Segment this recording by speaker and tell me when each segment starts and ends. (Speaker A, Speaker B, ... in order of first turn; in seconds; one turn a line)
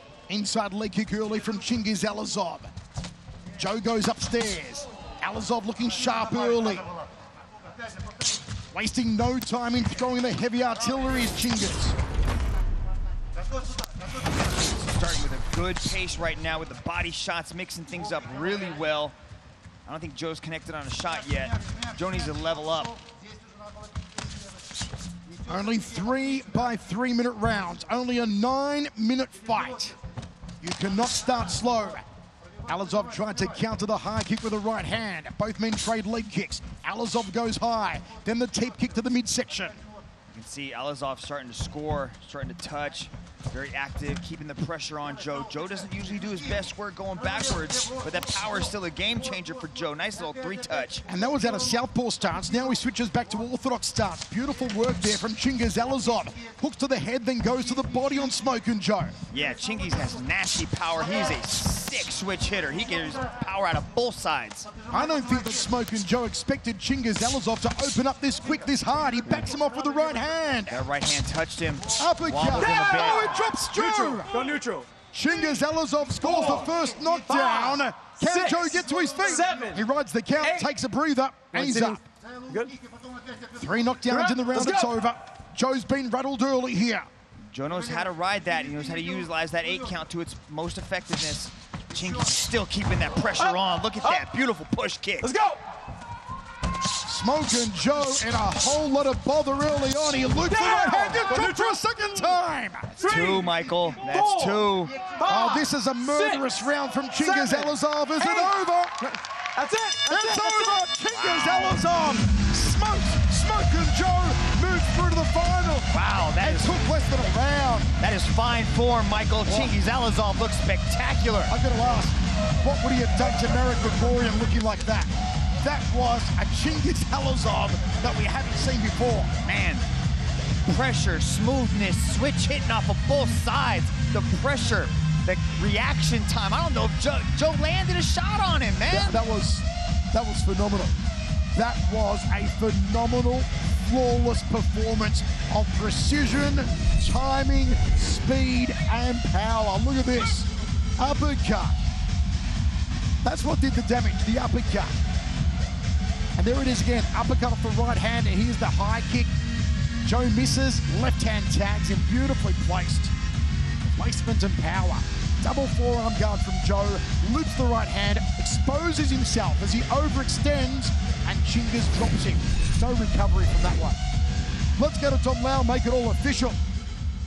Speaker A: 0.3-2.7
Speaker A: 3.6-6.9
Speaker A: 8.7-12.0
Speaker B: 14.5-19.1
Speaker B: 19.9-22.9
Speaker A: 25.5-30.0
Speaker A: 30.6-32.0
Speaker A: 32.7-39.8
Speaker B: 40.3-51.1
Speaker A: 51.1-59.2
Speaker B: 59.3-64.7
Speaker A: 64.9-70.8
Speaker B: 70.7-73.4
Speaker A: 72.0-74.4
Speaker C: 72.5-74.9
Speaker A: 75.1-82.0
Speaker C: 76.2-76.7
Speaker C: 77.2-79.8
Speaker C: 80.4-80.7
Speaker C: 81.5-82.8
Speaker A: 83.5-87.1
Speaker C: 84.1-84.9
Speaker B: 87.5-95.3
Speaker C: 93.4-94.2
Speaker C: 95.2-95.6
Speaker A: 97.0-103.0
Speaker C: 100.5-102.4
Speaker C: 103.0-106.5
Speaker B: 103.0-105.0
Speaker A: 105.2-109.1
Speaker C: 107.2-108.5
Speaker C: 109.5-110.8
Speaker A: 110.0-117.9
Speaker B: 111.1-111.8
Speaker B: 115.9-116.8
Speaker B: 118.0-121.6
Speaker A: 119.5-119.8
Speaker A: 121.5-129.3
Speaker B: 129.4-129.9
Speaker B: 130.7-139.2
Speaker A: 138.9-141.0
Speaker A: 141.6-151.8
Speaker A: 153.2-154.9
Speaker A: 156.4-159.3
Speaker A: 160.0-163.1
Speaker A: 163.9-174.0
Speaker A: 174.8-176.6